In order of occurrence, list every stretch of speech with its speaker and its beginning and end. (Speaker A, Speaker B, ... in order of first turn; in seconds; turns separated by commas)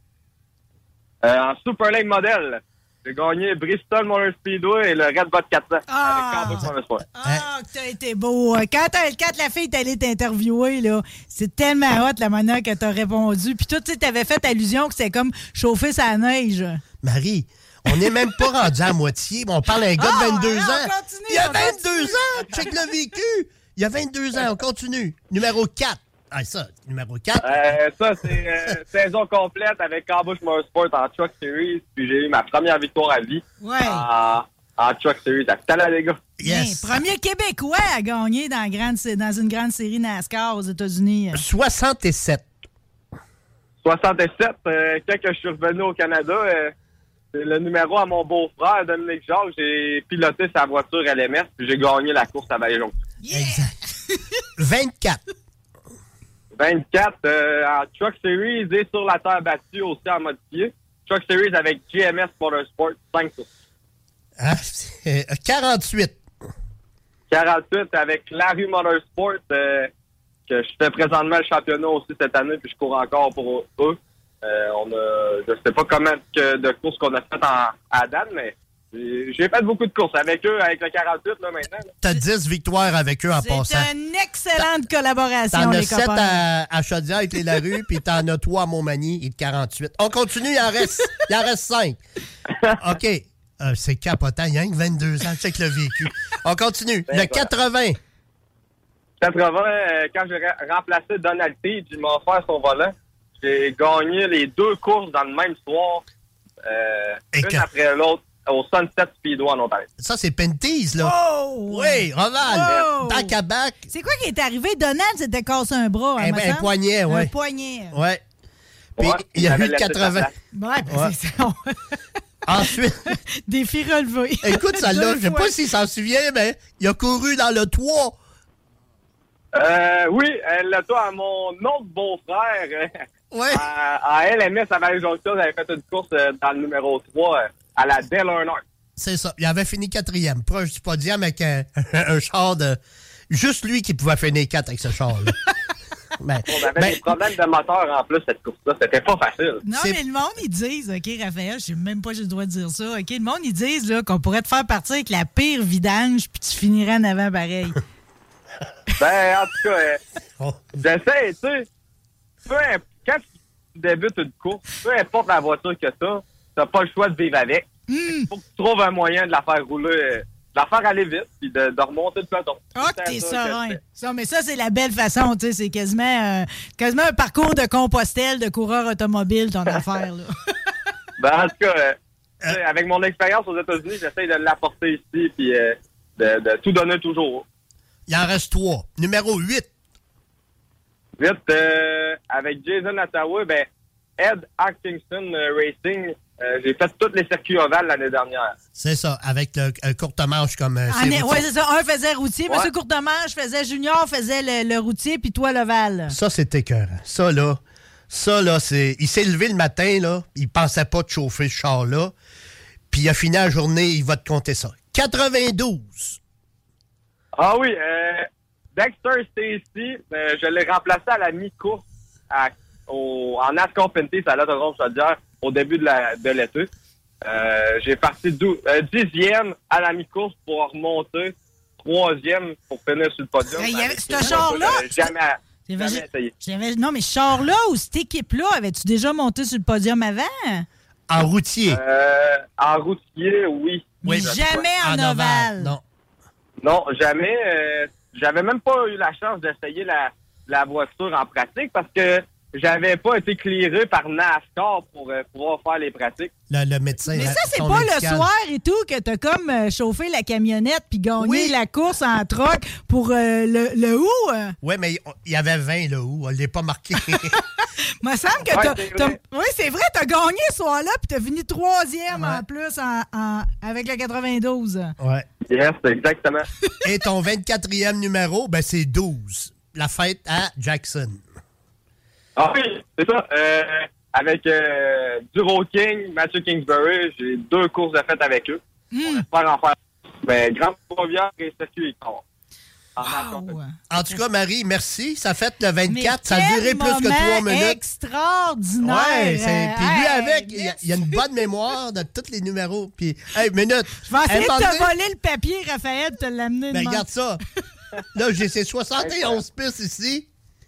Speaker A: 1.2-7.0, Speaker B: 5.9-16.8, Speaker C: 17.0-27.8, Speaker B: 19.9-22.7, Speaker A: 27.4-36.2, Speaker B: 33.6-34.0, Speaker C: 36.4-37.0, Speaker B: 36.4-41.4, Speaker C: 41.3-42.4, Speaker A: 43.8-46.7, Speaker A: 47.3-52.9, Speaker B: 53.2-54.2, Speaker C: 53.3-53.7, Speaker C: 54.6-55.2, Speaker A: 56.5-63.5, Speaker C: 64.4-66.2, Speaker A: 67.3-69.9, Speaker A: 70.5-81.9, Speaker C: 82.0-83.9, Speaker B: 83.3-86.4, Speaker C: 85.5-92.0, Speaker C: 92.8-98.0, Speaker A: 97.1-97.5, Speaker A: 99.2-106.0, Speaker A: 106.6-109.9, Speaker C: 107.3-107.7, Speaker C: 110.0-113.8, Speaker B: 111.0-113.3, Speaker A: 112.6-112.9, Speaker B: 113.9-118.0, Speaker C: 116.2-117.3, Speaker C: 117.9-118.2, Speaker A: 119.0-120.3, Speaker C: 119.0-120.3, Speaker B: 120.5-122.0, Speaker C: 120.9-121.1, Speaker C: 122.5-123.0, Speaker B: 122.6-125.6, Speaker C: 124.4-128.2, Speaker A: 129.5-132.9, Speaker C: 133.3-133.6, Speaker A: 133.5-138.6, Speaker C: 139.0-145.3, Speaker C: 146.2-147.0, Speaker A: 146.5-149.6, Speaker B: 149.6-157.8, Speaker C: 149.7-150.0, Speaker A: 159.0-160.0, Speaker C: 160.4-160.6, Speaker A: 160.7-161.6, Speaker A: 162.4-173.8, Speaker B: 167.9-168.3, Speaker B: 172.7-180.3, Speaker A: 181.2-181.9, Speaker A: 182.4-187.4, Speaker C: 188.1-189.7, Speaker A: 191.2-193.7, Speaker A: 194.2-198.5, Speaker C: 198.8-201.4, Speaker B: 200.9-206.2, Speaker C: 206.1-207.6, Speaker C: 208.1-212.1, Speaker C: 212.9-216.2, Speaker A: 217.3-218.2, Speaker A: 218.7-226.7, Speaker A: 227.2-236.3, Speaker B: 233.6-235.1, Speaker B: 235.7-240.7, Speaker C: 241.1-241.8, Speaker A: 241.7-244.7, Speaker B: 244.0-245.8, Speaker C: 244.1-245.8, Speaker A: 246.6-256.3, Speaker C: 256.5-258.3, Speaker B: 257.1-264.5, Speaker C: 261.2-261.5, Speaker C: 264.6-267.4, Speaker B: 267.1-267.4, Speaker B: 268.0-274.9, Speaker A: 268.5-269.2, Speaker C: 272.1-272.4, Speaker C: 275.0-275.2, Speaker A: 275.5-276.4, Speaker C: 276.8-281.2, Speaker A: 282.4-292.2, Speaker B: 288.9-289.2, Speaker A: 292.9-293.6, Speaker B: 293.0-294.2, Speaker C: 293.9-297.8, Speaker B: 295.9-301.2, Speaker C: 298.8-304.9, Speaker B: 304.0-307.1, Speaker C: 306.7-307.4, Speaker C: 308.1-310.3, Speaker A: 309.0-309.4